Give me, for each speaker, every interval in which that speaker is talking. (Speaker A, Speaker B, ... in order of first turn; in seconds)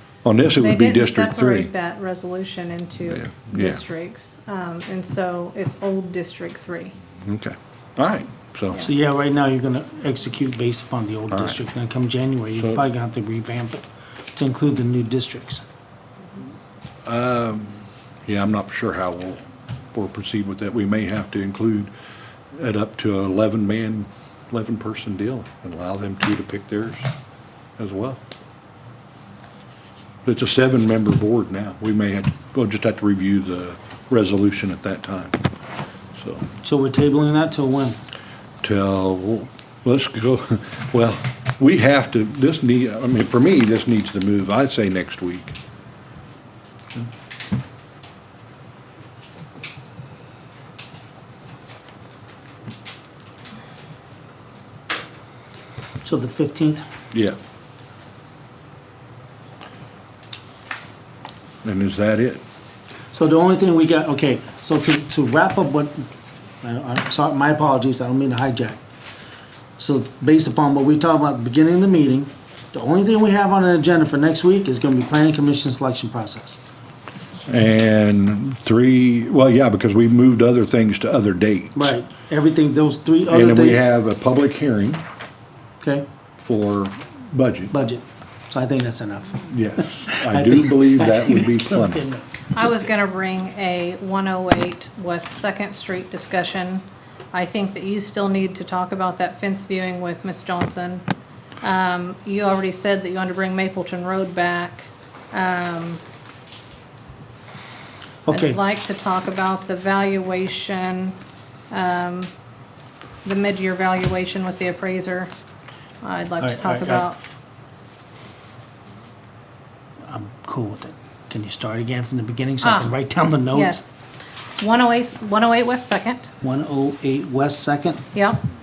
Speaker A: 0.2-1.7, 3.1-3.8, 7.2-8.8, 11.3-11.6, 17.1-19.4, 19.9-21.9, 22.5-27.1, 27.8-28.2, 30.2-35.4, 36.1-36.5, 38.6-45.5, 61.6-62.4, 77.5-81.9, 83.3-85.0, 86.4-87.7, 89.5-92.0
Speaker B: 0.6-7.0, 92.5-101.0, 101.6-106.0, 108.3-111.2, 111.7-112.3, 113.2-115.3, 116.0-117.2, 122.6-122.9, 123.5-124.0, 124.6-126.3, 128.1-128.4
Speaker C: 8.8-13.8, 14.3-15.6, 36.6-38.0, 56.0-56.8, 63.1-66.1, 66.6-68.8, 69.8-76.6, 81.7-83.8, 85.8-86.0, 87.7-92.5, 108.2-108.6, 116.4-117.1, 120.1-123.8, 126.4-128.0